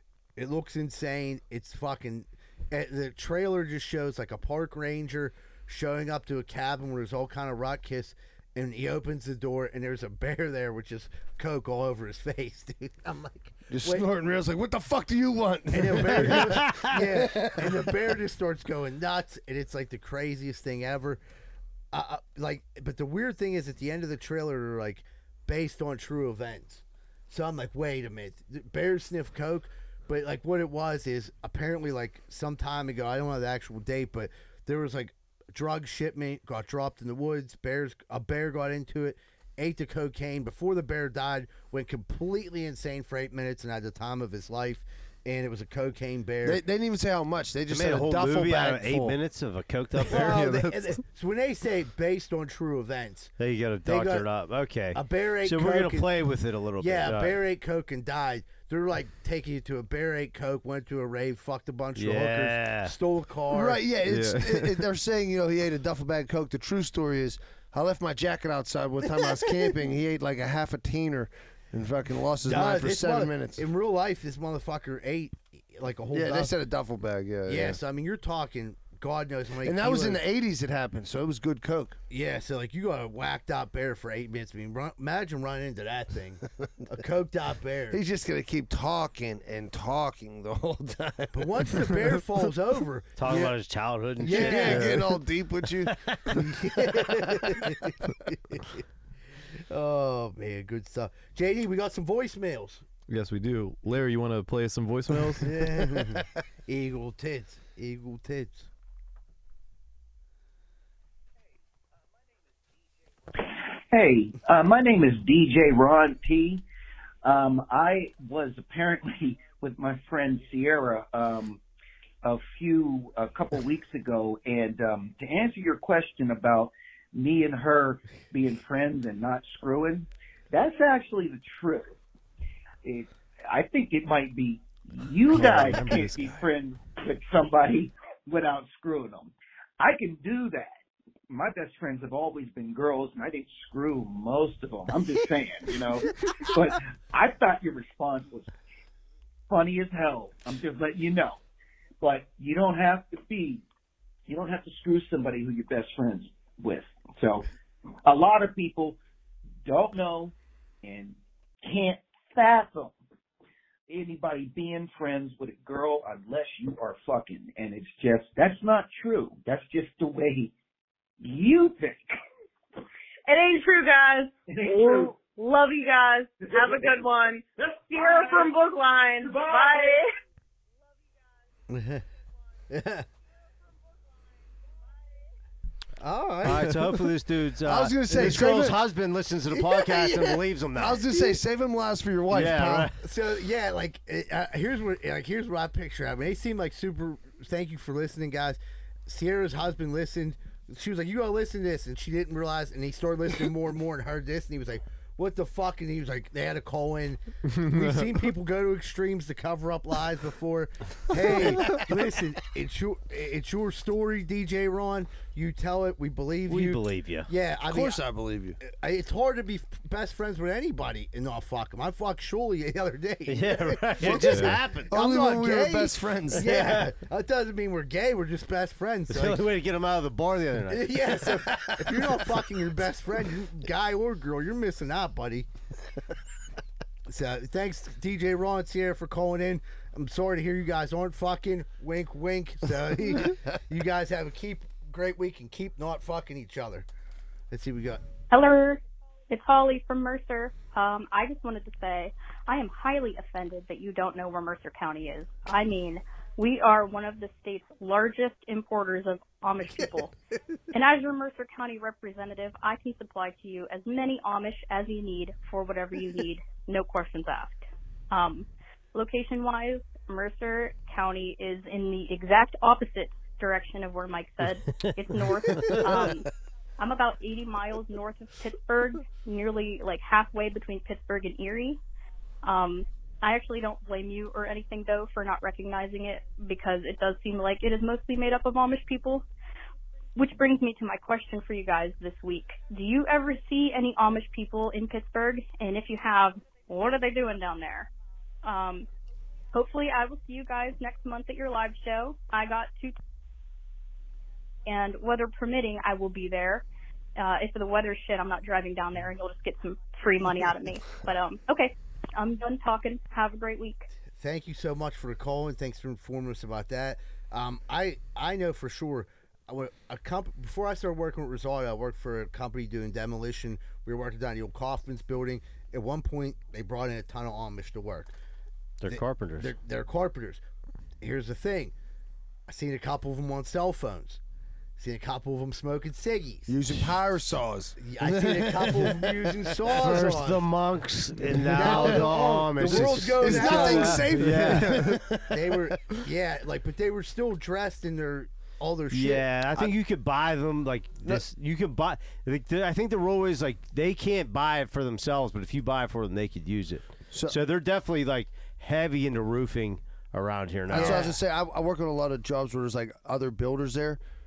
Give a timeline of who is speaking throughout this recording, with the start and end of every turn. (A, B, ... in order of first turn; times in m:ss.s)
0:00.4-0:14.0 A
0:13.7-0:18.1 B
0:15.7-0:21.2 A
0:21.9-0:46.6 A
0:46.4-0:49.2 B
0:47.7-0:50.3 C
0:50.1-0:53.3 A
0:50.2-0:50.7 B
0:53.4-0:57.4 C
0:53.8-0:54.2 A
0:54.9-0:56.1 A
0:56.8-1:03.8 A
1:02.0-1:02.9 C
1:03.5-1:13.6 B
1:04.0-1:04.8 D
1:12.4-1:16.6 A
1:16.1-1:17.8 B
1:17.5-1:20.2 A
1:19.6-1:22.0 B
1:22.1-1:28.0 A
1:27.9-1:32.0 B
1:31.3-1:33.6 A
1:33.2-1:34.9 C
1:34.2-1:34.9 A
1:34.2-1:37.7 B
1:35.8-1:36.3 C
1:36.3-1:38.8 A
1:39.7-1:42.8 A
1:43.1-1:45.6 D
1:45.4-1:48.7 A
1:53.4-1:56.6 E
1:57.2-2:01.6 E
2:02.2-2:12.0 E
2:12.8-2:20.7 E
2:15.3-2:16.4 D
2:21.3-2:28.5 E
2:29.5-2:31.4 E
2:32.0-2:33.6 E
2:34.3-2:37.5 E
2:38.0-2:39.0 E
2:39.6-2:43.0 E
2:43.9-2:50.5 E
2:51.2-2:52.2 E
2:53.3-3:00.1 F
2:54.5-2:55.2 E
2:56.4-2:57.1 E
2:57.6-2:58.5 E
2:59.2-3:00.0 E
3:01.7-3:02.0 A
3:02.7-3:03.0 A
3:06.0-3:06.8 A
3:06.4-3:11.0 C
3:07.6-3:08.8 B
3:08.1-3:08.4 A
3:09.6-3:10.4 A
3:10.8-3:12.9 B
3:12.3-3:13.0 C
3:13.0-3:38.0 A
3:27.5-3:28.1 D
3:31.2-3:31.8 B
3:36.5-3:37.3 C
3:37.6-3:38.6 B
3:38.6-3:49.5 A
3:43.3-3:44.9 C
3:44.0-3:46.5 B
3:44.3-3:44.5 D
3:46.4-3:46.9 C
3:49.1-3:51.1 C
3:50.7-3:55.5 A
3:51.5-3:52.2 B
3:57.1-4:06.9 A
4:07.5-4:08.0 A
4:08.3-4:20.1 G
4:20.7-4:36.3 G
4:34.9-4:36.2 C
4:36.8-4:41.8 G
4:42.4-4:49.2 G
4:50.2-4:57.9 G
4:58.4-4:58.9 G
4:59.5-5:03.0 G
5:04.7-5:06.6 G
5:07.2-5:13.8 G
5:14.2-5:28.1 A
5:28.8-5:29.5 C
5:28.9-5:30.4 A
5:31.0-5:31.7 A
5:32.5-5:34.2 A
5:34.8-5:36.6 A
5:36.5-5:40.1 B
5:37.8-5:40.4 A
5:39.8-5:44.8 C
5:41.2-5:45.6 B
5:41.5-5:44.7 A
5:44.2-5:45.0 D
5:45.3-5:49.7 A
5:48.9-6:01.1 C
5:57.1-5:57.4 B
6:00.7-6:01.1 A
6:00.7-6:04.0 B